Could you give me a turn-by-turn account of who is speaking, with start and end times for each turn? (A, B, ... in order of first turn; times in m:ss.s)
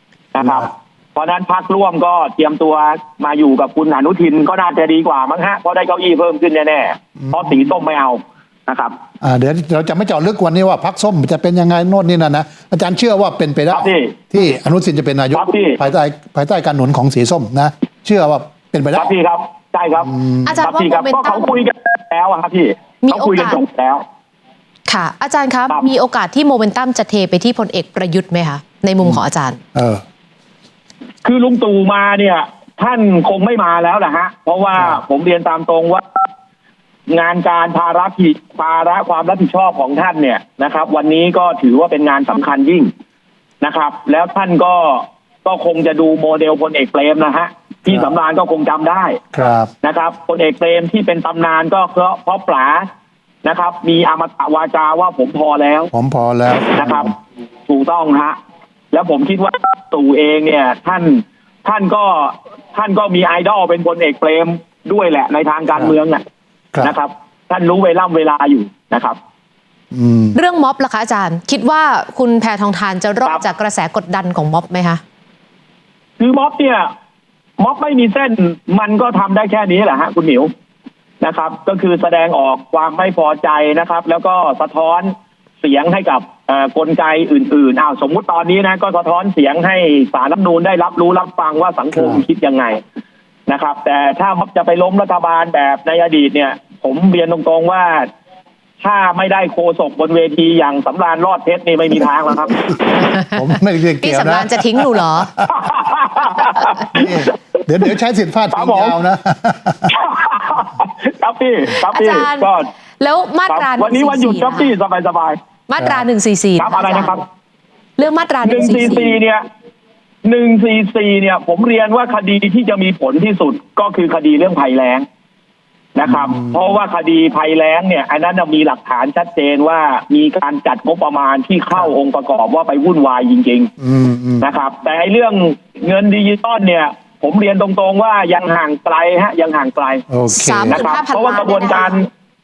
0:00.3-0:09.0 A
0:00.4-0:00.7 B
0:09.2-0:19.1 B
0:13.7-0:14.2 A
0:15.3-0:15.8 A
0:18.9-0:24.0 A
0:20.0-0:20.7 B
0:20.4-0:21.5 C
0:23.0-0:23.6 C
0:24.9-0:29.6 C
0:29.7-0:30.0 B
0:31.2-0:36.0 A
0:37.1-0:42.9 A
0:43.6-0:49.2 A
0:49.3-0:49.7 B
0:49.8-0:52.9 A
0:53.4-0:55.9 A
0:55.9-0:57.1 B
0:56.8-0:57.1 A
0:57.7-0:58.4 A
0:58.9-1:06.2 A
1:06.8-1:09.2 A
1:09.9-1:10.4 B
1:10.3-1:15.0 C
1:16.2-1:16.9 A
1:17.6-1:20.5 A
1:21.2-1:32.8 A
1:31.9-1:32.2 B
1:33.5-1:38.1 A
1:38.8-1:42.6 A
1:43.2-1:45.5 B
1:44.0-1:45.3 C
1:45.5-1:47.2 A
1:46.8-1:49.9 B
1:48.5-1:49.0 A
1:49.9-1:52.7 A
1:51.8-1:54.8 C
1:53.5-1:55.4 A
1:55.7-1:57.2 C
1:55.8-1:56.0 B
1:56.6-1:57.2 A
1:58.0-1:59.1 C
1:58.4-1:59.4 A
2:00.2-2:05.1 A
2:06.0-2:13.7 A
2:06.0-2:06.6 B
2:13.8-2:14.5 B
2:14.4-2:20.0 A
2:20.1-2:20.8 B
2:20.3-2:22.0 C
2:20.7-2:22.1 A